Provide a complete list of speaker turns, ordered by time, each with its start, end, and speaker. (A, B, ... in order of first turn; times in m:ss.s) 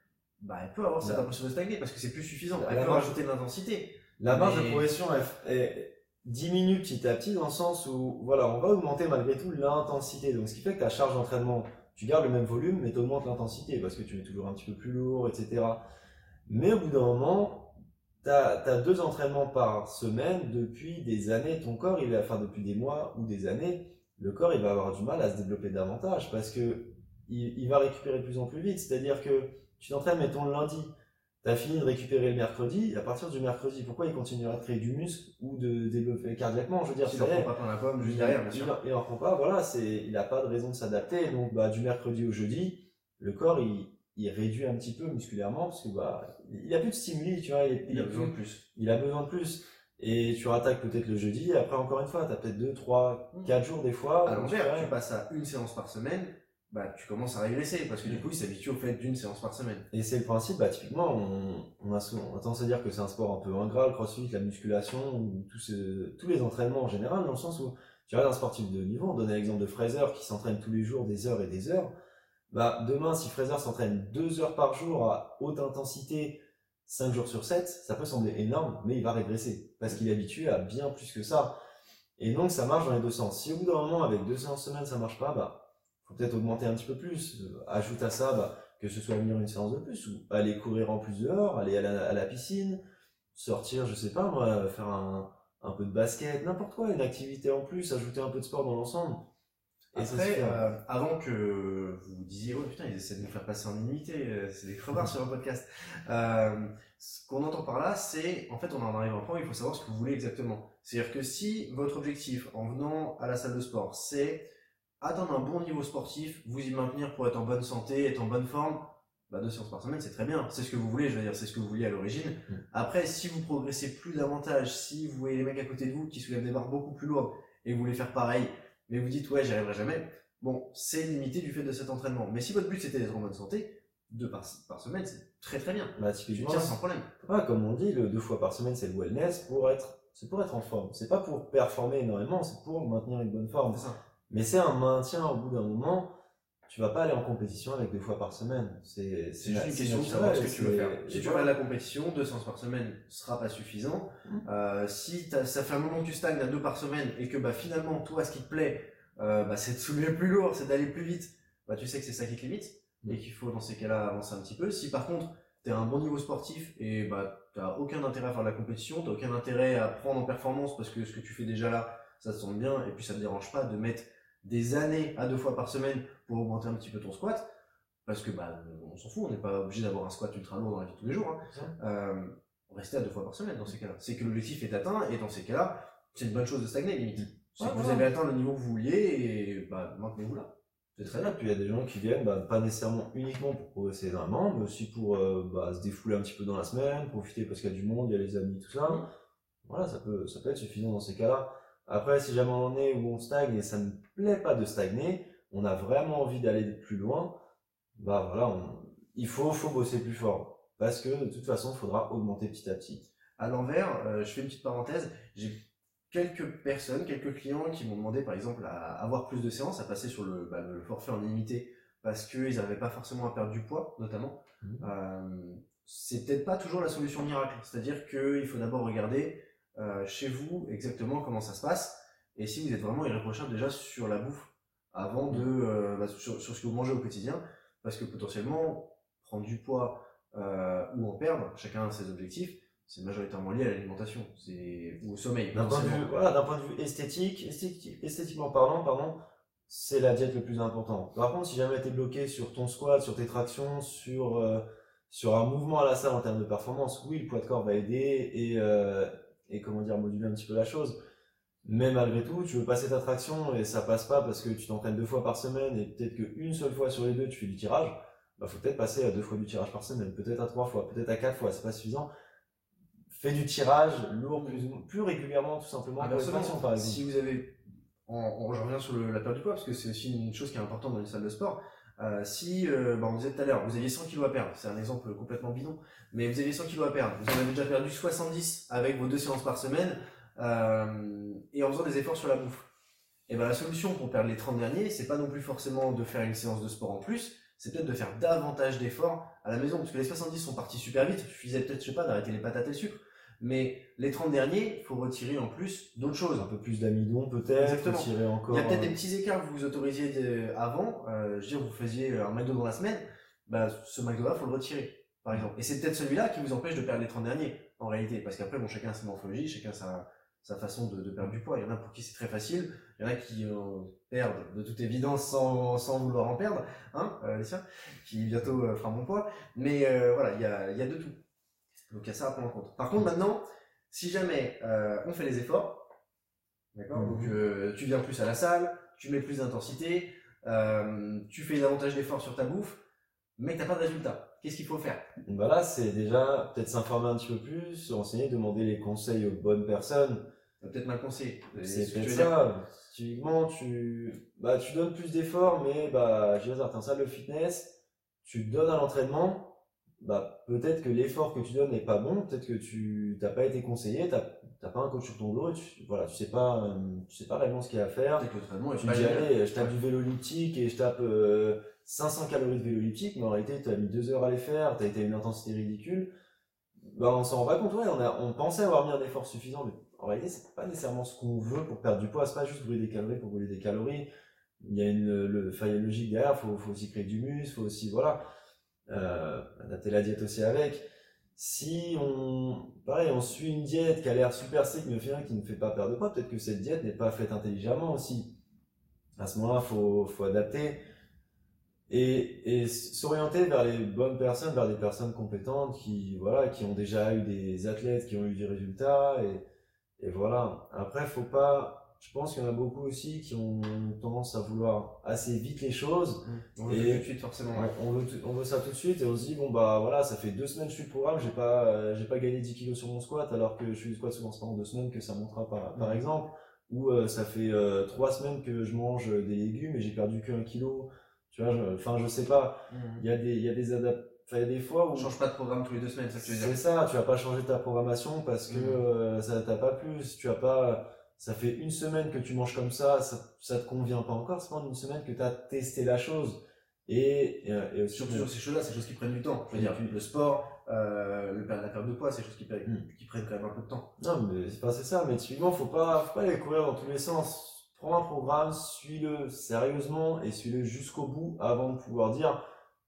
0:00.4-0:04.8 A
0:01.0-0:01.3 B
0:02.6-0:03.2 B
0:04.2-0:15.8 B
0:16.5-0:30.9 B
0:31.4-0:54.9 B
0:37.0-0:38.8 A
0:47.9-0:48.6 A
0:54.2-0:59.9 A
0:59.9-1:11.9 B
1:12.5-1:21.6 B
1:22.2-1:32.8 B
1:33.3-1:39.3 B
1:40.0-1:40.7 B
1:40.0-1:54.4 A
1:55.0-2:17.1 A
2:16.0-2:26.1 B
2:23.7-2:24.0 A
2:26.7-2:31.5 B
2:29.4-2:57.5 A
2:58.1-3:11.4 A
3:07.6-3:08.1 B
3:11.0-3:19.0 B
3:19.6-3:27.4 B
3:28.0-3:33.1 B
3:33.4-4:06.1 A
3:44.6-3:44.9 B
4:05.5-4:21.0 B
4:21.6-4:32.1 B
4:33.1-4:37.0 B
4:36.0-4:52.7 A
4:53.3-5:06.5 A
5:06.4-5:09.0 B
5:07.6-5:31.2 A
5:31.9-5:35.9 A
5:36.7-5:42.8 A
5:36.9-5:37.4 B
5:43.4-5:45.0 A
5:45.3-5:50.3 B
5:50.6-5:52.4 A
5:51.6-6:08.2 B
6:08.1-6:09.7 A
6:08.8-6:16.1 B
6:16.9-6:24.1 B
6:24.6-6:28.2 B
6:28.9-6:30.8 B
6:31.4-6:38.4 B
6:39.2-6:40.8 B
6:41.9-6:49.4 B
6:50.0-7:15.1 B
6:56.2-6:57.7 A
7:05.8-7:06.0 A
7:12.7-7:13.0 A
7:15.0-7:16.6 A
7:16.2-7:28.3 B
7:18.5-7:18.8 A
7:27.9-7:33.9 A
7:29.5-7:30.0 B
7:34.0-7:42.4 B